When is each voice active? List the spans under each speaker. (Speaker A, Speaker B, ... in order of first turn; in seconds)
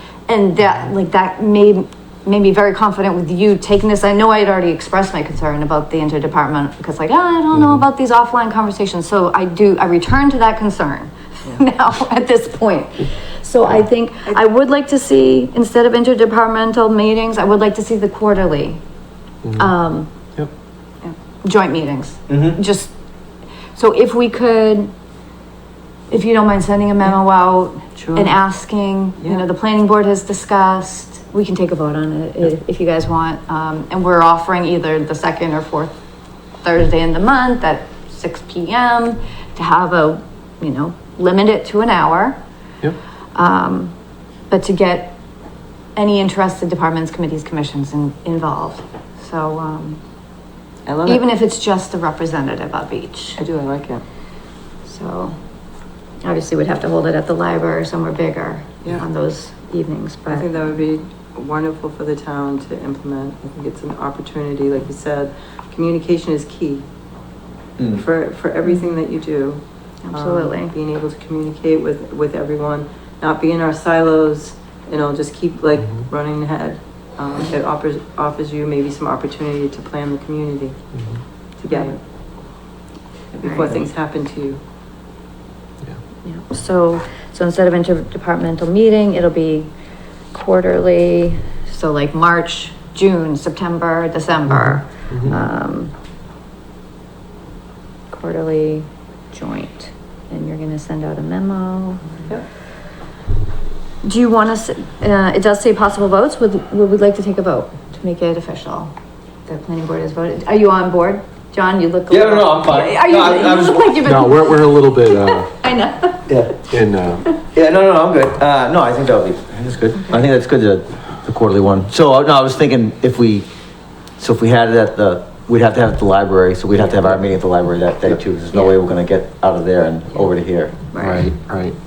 Speaker A: 0.3-18.8, 19.6-20.1, 21.4-22.9, 23.8-24.9, 26.1-36.0, 36.6-42.4, 43.4-43.9, 44.5-45.2, 46.0-50.0, 51.0-53.4, 54.9-55.3, 56.2-60.5, 68.7-68.9, 70.0-70.7, 81.7-81.9, 83.4-83.9, 86.2-89.7, 90.3-95.9, 98.1-102.0, 104.0-108.9, 109.5-116.3, 128.5-128.8, 130.9-131.3
Speaker B: 19.4-19.7, 80.9-81.2, 94.5-95.4, 114.0-115.5, 116.7-117.3, 126.8-127.2, 131.0-131.8
Speaker C: 22.3-22.6, 67.8-68.0, 112.1-114.0, 116.3-116.6, 117.5-123.5, 124.2-130.8
Speaker D: 28.0-28.4, 50.9-51.3, 53.4-54.0, 60.3-66.8, 67.9-80.8, 81.6-82.0, 83.3-84.6